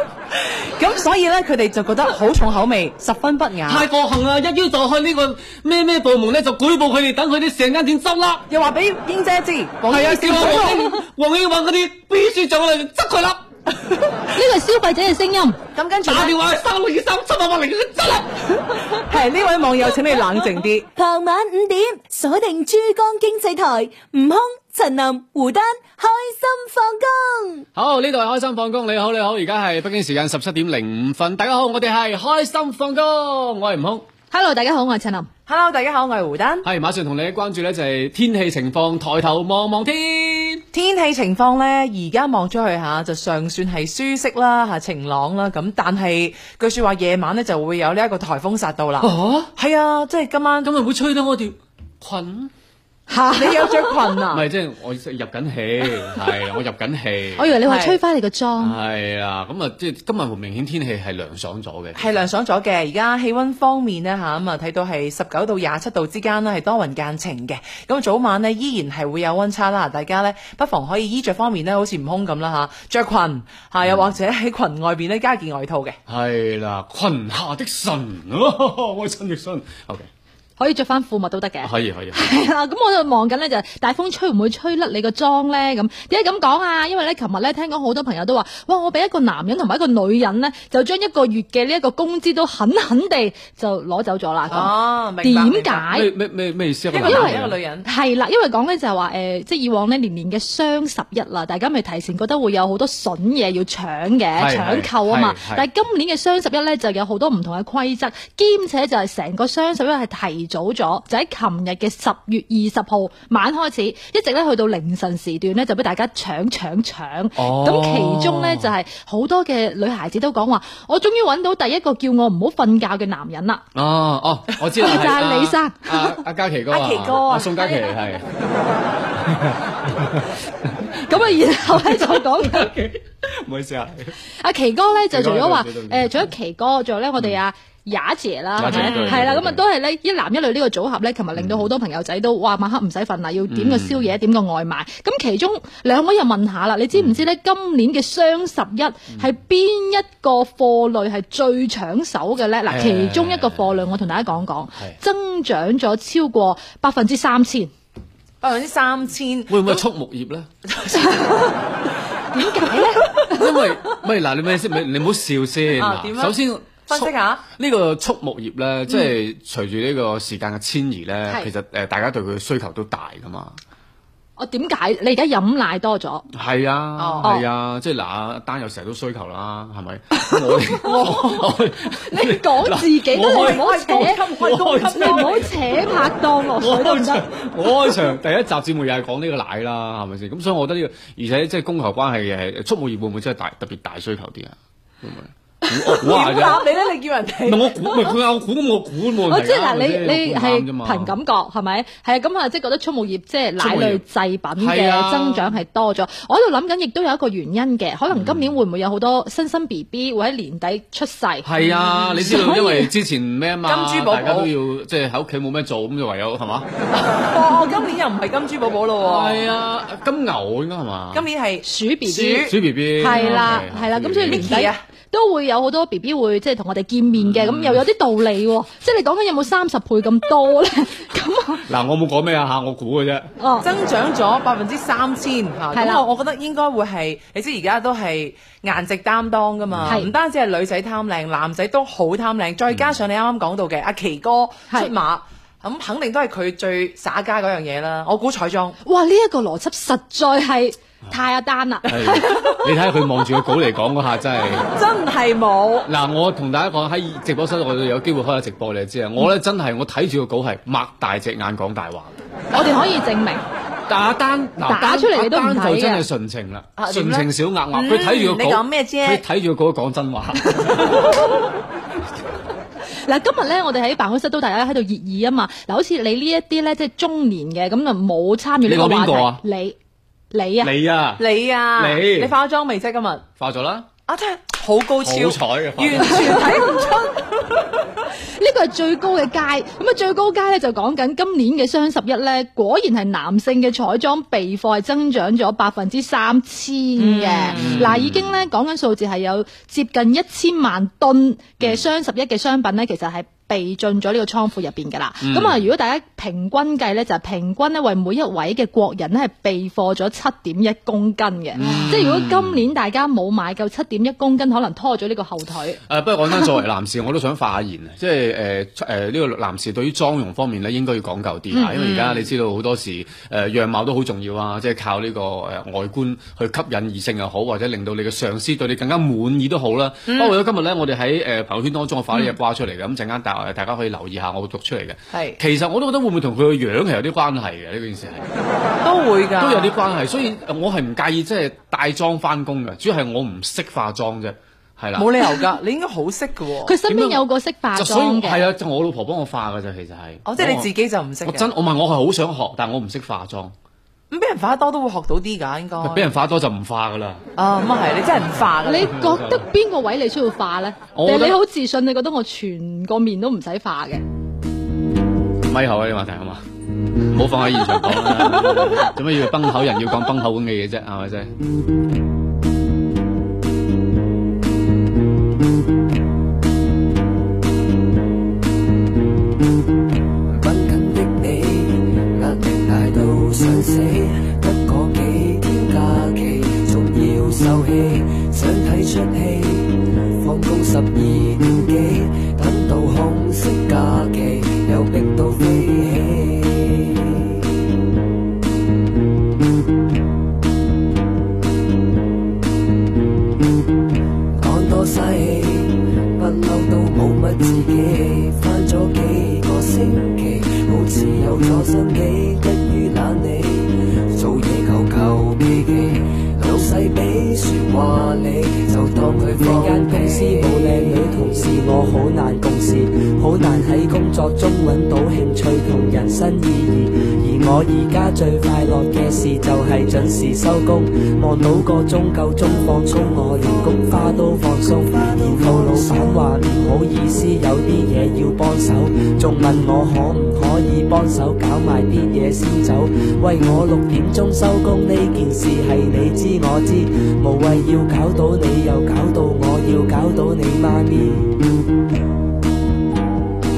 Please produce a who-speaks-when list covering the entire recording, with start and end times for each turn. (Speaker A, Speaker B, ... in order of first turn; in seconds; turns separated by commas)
Speaker A: 0.8-3.9, Speaker B: 3.7-8.4, Speaker A: 8.5-10.8, Speaker B: 9.9-13.4, Speaker C: 14.3-15.6, Speaker A: 15.7-16.3, Speaker B: 16.0-18.5, Speaker A: 19.1-20.9, Speaker D: 20.9-27.6, Speaker B: 27.7-34.0, Speaker C: 34.3-35.3, Speaker A: 35.5-36.7, Speaker B: 36.6-40.6, Speaker A: 40.7-50.7, Speaker B: 49.0-49.5, Speaker B: 50.6-52.5, Speaker C: 53.1-54.0, Speaker A: 53.3-54.5, Speaker B: 54.3-57.5, Speaker C: 57.4-58.8, Speaker A: 57.6-58.0, Speaker B: 58.6-62.1, Speaker A: 62.0-76.0, Speaker B: 76.1-80.1, Speaker C: 80.6-96.1, Speaker B: 81.6-82.3, Speaker A: 94.5-95.9, Speaker B: 95.9-97.5, Speaker A: 96.9-97.9, Speaker C: 97.0-97.3, Speaker C: 97.8-123.6, Speaker B: 104.4-105.7, Speaker B: 117.4-118.7, Speaker B: 123.8-128.2, Speaker C: 124.8-126.2, Speaker A: 126.7-127.4, Speaker C: 127.5-128.0, Speaker B: 129.2-134.2, Speaker C: 131.0-132.7, Speaker C: 134.4-157.7, Speaker B: 135.1-136.3, Speaker B: 138.6-139.6, Speaker A: 138.6-139.2, Speaker B: 141.3-141.7, Speaker B: 143.5-144.1, Speaker B: 146.9-147.2, Speaker B: 152.7-153.8, Speaker A: 158.4-159.8, Speaker B: 159.5-160.5, Speaker A: 160.7-161.5, Speaker C: 162.3-163.4, Speaker B: 163.2-173.6, Speaker A: 165.7-167.4, Speaker C: 174.4-176.2, Speaker B: 176.3-185.4, Speaker A: 177.0-177.3, Speaker C: 180.8-181.4, Speaker C: 182.0-184.3, Speaker A: 183.3-185.5, Speaker C: 184.9-187.2, Speaker B: 186.6-196.7, Speaker A: 195.7-197.9, Speaker B: 197.4-201.1, Speaker C: 199.3-211.5, Speaker B: 203.6-204.0, Speaker B: 204.6-205.6, Speaker B: 208.1-208.5, Speaker B: 211.4-216.7, Speaker A: 211.6-212.4, Speaker C: 212.2-212.9, Speaker A: 213.6-214.5, Speaker A: 217.0-219.4, Speaker B: 219.0-221.3, Speaker A: 221.1-223.6, Speaker C: 221.6-222.5, Speaker B: 222.2-224.7, Speaker C: 223.0-231.6, Speaker A: 224.3-224.8, Speaker B: 227.2-227.8, Speaker B: 231.7-233.3, Speaker C: 233.4-233.7, Speaker A: 233.6-248.8, Speaker C: 235.7-236.0, Speaker B: 239.7-240.0, Speaker C: 248.8-252.6, Speaker B: 251.9-254.7, Speaker A: 254.7-255.9, Speaker B: 255.9-262.1, Speaker C: 262.5-263.4, Speaker B: 263.9-270.9, Speaker C: 264.6-266.0, Speaker A: 266.8-269.2, Speaker C: 273.1-279.8, Speaker B: 278.6-279.4, Speaker C: 280.3-280.7, Speaker B: 280.6-282.3, Speaker A: 281.2-283.2, Speaker B: 283.4-283.9, Speaker A: 284.1-287.7, Speaker B: 285.0-286.4, Speaker C: 286.2-286.6, Speaker C: 288.4-315.8, Speaker A: 297.0-297.9, Speaker B: 297.5-298.4, Speaker B: 305.2-305.6, Speaker B: 311.6-312.6, Speaker A: 311.6-311.9, Speaker B: 315.9-338.2, Speaker A: 321.8-322.1, Speaker A: 330.1-330.4, Speaker A: 335.1-335.4, Speaker A: 338.8-339.8, Speaker B: 339.4-345.2, Speaker A: 344.9-346.8, Speaker C: 346.6-348.4, Speaker B: 346.9-347.2, Speaker B: 347.7-350.7, Speaker A: 350.2-351.5, Speaker B: 351.2-353.5, Speaker A: 354.1-356.1, Speaker B: 355.8-357.2, Speaker A: 357.4-358.9, Speaker C: 358.6-364.0, Speaker B: 358.8-359.4, Speaker B: 360.9-361.4, Speaker B: 365.5-366.4, Speaker B: 367.1-371.3, Speaker E: 380.3-397.4, Speaker E: 404.4-421.2, Speaker F: 419.3-451.3, Speaker E: 433.4-436.3